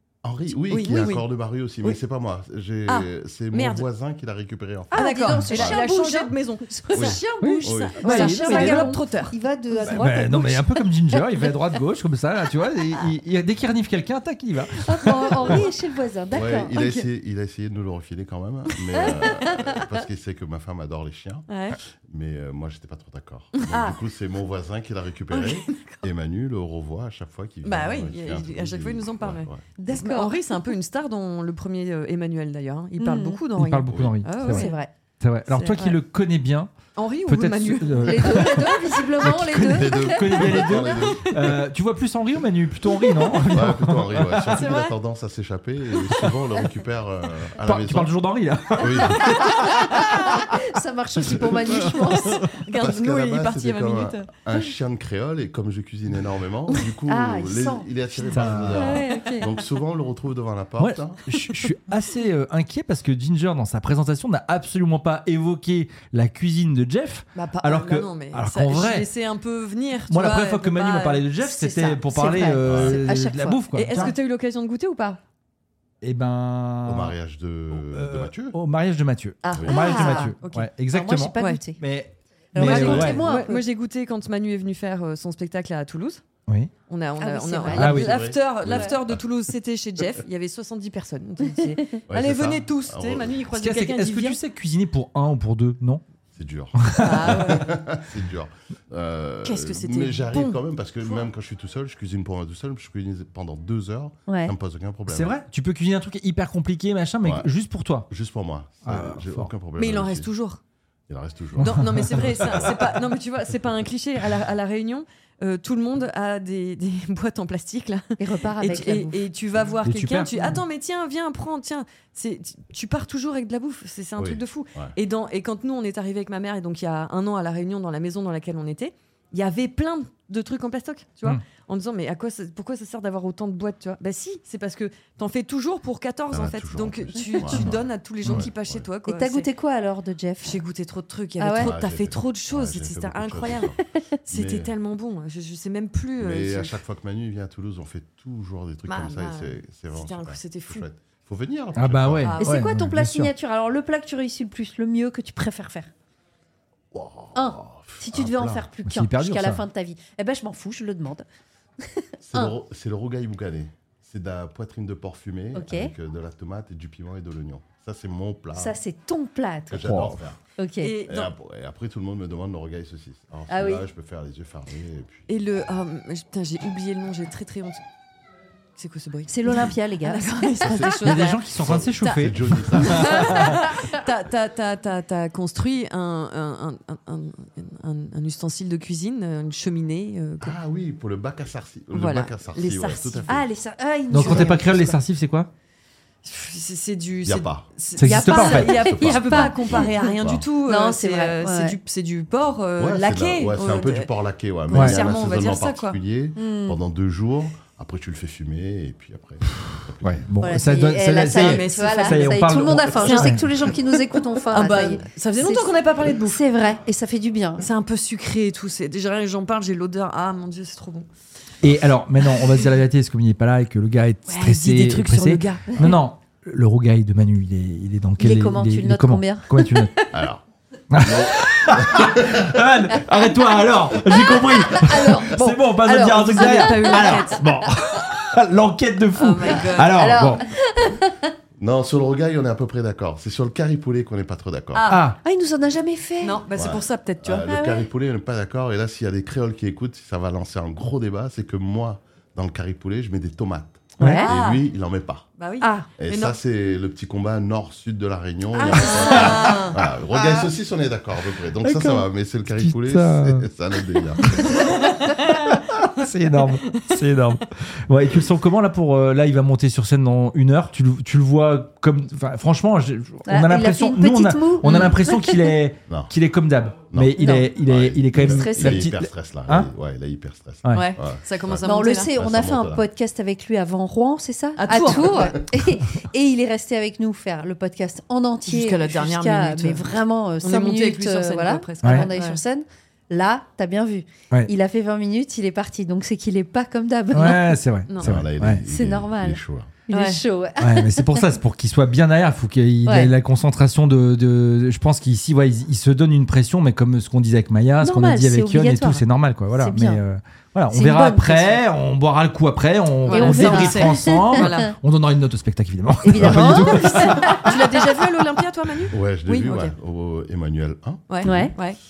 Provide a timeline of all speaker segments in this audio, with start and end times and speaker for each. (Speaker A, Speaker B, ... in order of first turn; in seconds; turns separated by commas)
Speaker A: 0.2-5.8, Speaker B: 0.6-1.3, Speaker C: 0.8-1.2, Speaker B: 2.9-3.9, Speaker C: 4.9-11.5, Speaker B: 4.9-10.0, Speaker A: 6.9-8.0, Speaker D: 7.4-8.9, Speaker D: 9.8-15.6, Speaker C: 14.7-17.1, Speaker A: 16.3-21.5, Speaker C: 18.9-19.7, Speaker B: 21.5-21.8, Speaker A: 22.1-29.6, Speaker B: 23.5-24.0, Speaker B: 25.3-26.0, Speaker B: 27.6-34.8, Speaker C: 29.8-30.4, Speaker C: 33.0-33.4, Speaker D: 33.5-36.7, Speaker A: 33.9-34.2, Speaker C: 34.4-34.9, Speaker B: 35.5-36.0, Speaker B: 37.0-38.6, Speaker D: 37.2-44.7, Speaker C: 38.0-40.9, Speaker A: 39.5-41.5, Speaker A: 43.5-48.2, Speaker B: 44.5-45.0, Speaker D: 47.6-50.4, Speaker A: 48.8-49.2, Speaker C: 49.2-52.5, Speaker B: 52.6-54.4, Speaker A: 52.8-61.2, Speaker C: 57.1-59.5, Speaker D: 58.3-59.0, Speaker B: 58.9-59.4, Speaker D: 60.8-69.1, Speaker B: 67.3-71.2, Speaker D: 70.1-74.1, Speaker C: 71.4-73.6, Speaker A: 72.6-73.0, Speaker B: 73.7-75.2, Speaker D: 76.0-77.2, Speaker A: 76.8-78.5, Speaker D: 77.7-83.3, Speaker B: 79.4-80.7, Speaker C: 79.6-80.3, Speaker C: 80.9-81.8, Speaker C: 82.5-83.6, Speaker B: 82.5-86.2, Speaker D: 86.5-86.7, Speaker B: 86.9-94.4, Speaker C: 87.2-89.0, Speaker D: 87.7-88.2, Speaker A: 87.8-89.2, Speaker C: 91.5-91.8, Speaker A: 92.1-93.4, Speaker D: 93.5-96.0, Speaker A: 96.3-105.4, Speaker D: 96.8-97.6, Speaker B: 97.0-97.7, Speaker B: 99.4-101.3, Speaker C: 104.3-104.5, Speaker D: 105.1-108.1, Speaker A: 107.2-107.5, Speaker A: 108.1-110.3, Speaker D: 108.8-109.5, Speaker B: 109.8-110.6, Speaker A: 111.1-113.0, Speaker B: 111.6-118.0, Speaker D: 111.6-112.6, Speaker C: 118.2-119.2, Speaker B: 118.6-139.5, Speaker D: 119.8-120.6, Speaker A: 124.2-124.9, Speaker A: 136.3-138.9, Speaker C: 137.2-137.7, Speaker C: 139.0-140.6, Speaker B: 140.4-143.7, Speaker C: 141.4-141.8, Speaker A: 141.6-143.8, Speaker B: 144.3-146.8, Speaker A: 144.3-144.7, Speaker A: 146.2-152.4, Speaker B: 148.8-150.9, Speaker D: 151.8-153.3, Speaker B: 152.2-152.6, Speaker C: 152.4-155.9, Speaker A: 156.9-158.7, Speaker C: 157.3-161.2, Speaker D: 158.8-159.6, Speaker C: 161.8-162.5, Speaker A: 162.2-168.8, Speaker C: 165.5-165.9, Speaker C: 168.5-171.0, Speaker A: 169.7-170.4, Speaker D: 169.8-170.2, Speaker B: 170.8-171.3, Speaker A: 171.1-175.3, Speaker C: 173.5-173.9, Speaker B: 175.3-177.8, Speaker B: 178.8-190.6, Speaker C: 179.3-180.9, Speaker A: 180.6-180.9, Speaker D: 181.0-183.6, Speaker A: 181.6-183.4, Speaker C: 183.1-183.9, Speaker A: 190.4-193.4, Speaker B: 191.9-193.5, Speaker C: 193.2-195.0, Speaker D: 194.1-195.5, Speaker B: 194.2-194.5, Speaker B: 196.2-204.1, Speaker A: 197.2-197.7, Speaker D: 198.0-199.0, Speaker C: 198.0-200.1, Speaker A: 198.8-200.5, Speaker C: 200.6-201.8, Speaker A: 202.8-210.3, Speaker B: 204.7-206.0, Speaker D: 204.7-205.0, Speaker C: 206.3-206.8, Speaker D: 210.0-213.5, Speaker C: 210.4-217.7, Speaker B: 211.2-213.4, Speaker B: 214.5-216.4, Speaker B: 217.6-221.1, Speaker D: 221.6-230.0, Speaker B: 224.3-225.8, Speaker C: 228.2-229.9, Speaker A: 230.1-230.4, Speaker D: 230.9-240.4, Speaker A: 231.0-232.6, Speaker C: 234.1-237.4, Speaker B: 235.3-237.4, Speaker B: 239.2-240.0, Speaker C: 239.7-241.3, Speaker A: 241.6-244.9, Speaker B: 244.7-245.0, Speaker D: 244.9-245.2, Speaker C: 245.0-246.4, Speaker B: 246.2-247.5, Speaker A: 246.5-255.3, Speaker C: 247.4-247.9, Speaker D: 254.0-254.3, Speaker C: 254.0-254.3, Speaker B: 254.2-254.7, Speaker B: 255.4-256.4, Speaker C: 255.6-255.9, Speaker A: 256.0-264.3, Speaker C: 258.5-259.7, Speaker B: 258.6-259.7, Speaker D: 259.1-259.6, Speaker D: 261.6-263.5, Speaker D: 264.2-264.6, Speaker B: 264.5-265.3, Speaker D: 265.3-279.7, Speaker B: 266.4-267.0, Speaker C: 273.3-275.5, Speaker B: 274.6-274.9, Speaker A: 275.9-276.1, Speaker A: 276.9-282.8, Speaker C: 277.1-277.5, Speaker C: 278.2-278.9, Speaker D: 280.6-280.9, Speaker B: 280.7-282.1, Speaker C: 281.6-297.6, Speaker B: 284.6-285.4, Speaker B: 288.4-292.4, Speaker D: 291.8-292.1, Speaker D: 297.1-298.6, Speaker A: 298.0-299.8, Speaker C: 298.7-301.2, Speaker B: 299.9-300.2, Speaker D: 300.6-317.5, Speaker C: 302.8-303.1, Speaker C: 307.8-310.0, Speaker C: 310.7-311.6, Speaker B: 313.1-314.7, Speaker C: 313.1-314.5, Speaker C: 316.0-317.8, Speaker B: 316.2-319.7, Speaker A: 318.9-321.0, Speaker B: 321.1-321.8, Speaker C: 321.2-321.5